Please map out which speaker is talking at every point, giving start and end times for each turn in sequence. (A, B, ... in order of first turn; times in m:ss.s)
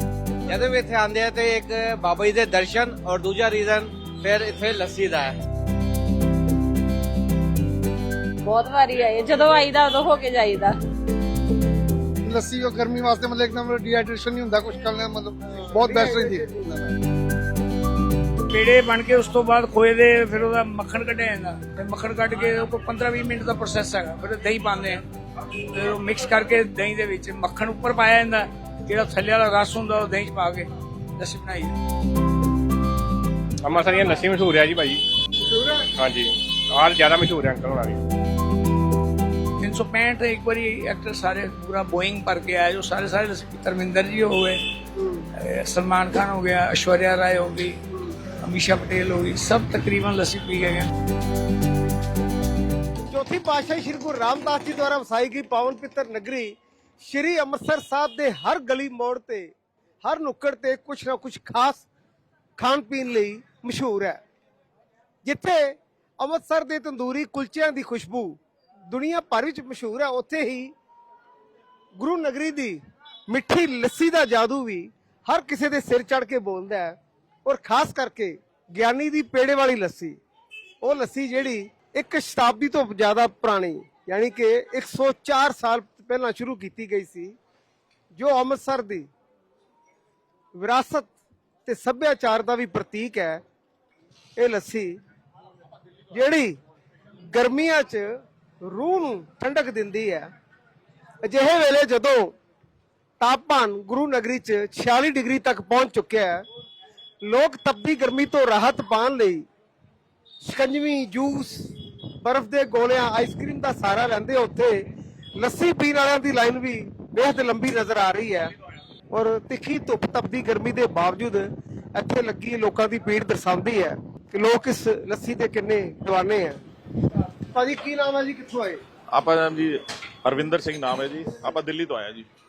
0:00.5-0:05.4 A
0:08.4-0:10.8 B
0:12.2-0:16.9 C
0:15.5-0:16.7 D
0:18.5-0:25.0 E
0:25.7-0:31.8 E
0:33.6-0:35.0 F
0:35.4-0:35.8 D
0:36.0-0:38.0 F
0:39.6-0:44.6 E
0:44.9-0:45.3 D
0:45.4-0:47.8 E
0:48.4-0:50.9 E
0:53.1-0:59.5 D
1:00.0-1:01.9 D
1:02.6-1:04.2 D
1:05.2-1:08.4 D
1:08.9-1:10.7 D
1:12.0-1:20.2 D
1:20.8-1:27.4 D
1:28.1-1:29.1 D
1:30.5-1:31.1 D
1:31.6-1:33.4 D
1:34.4-1:35.0 D
1:36.1-1:36.6 D
1:37.3-1:38.1 D
1:38.6-1:40.3 D
1:41.2-1:42.3 D
1:43.2-1:46.4 D
1:47.2-1:49.4 D
1:50.4-1:54.8 D
1:55.4-1:58.5 D
1:59.1-2:06.6 D
2:07.5-2:08.8 D
2:09.1-2:12.3 G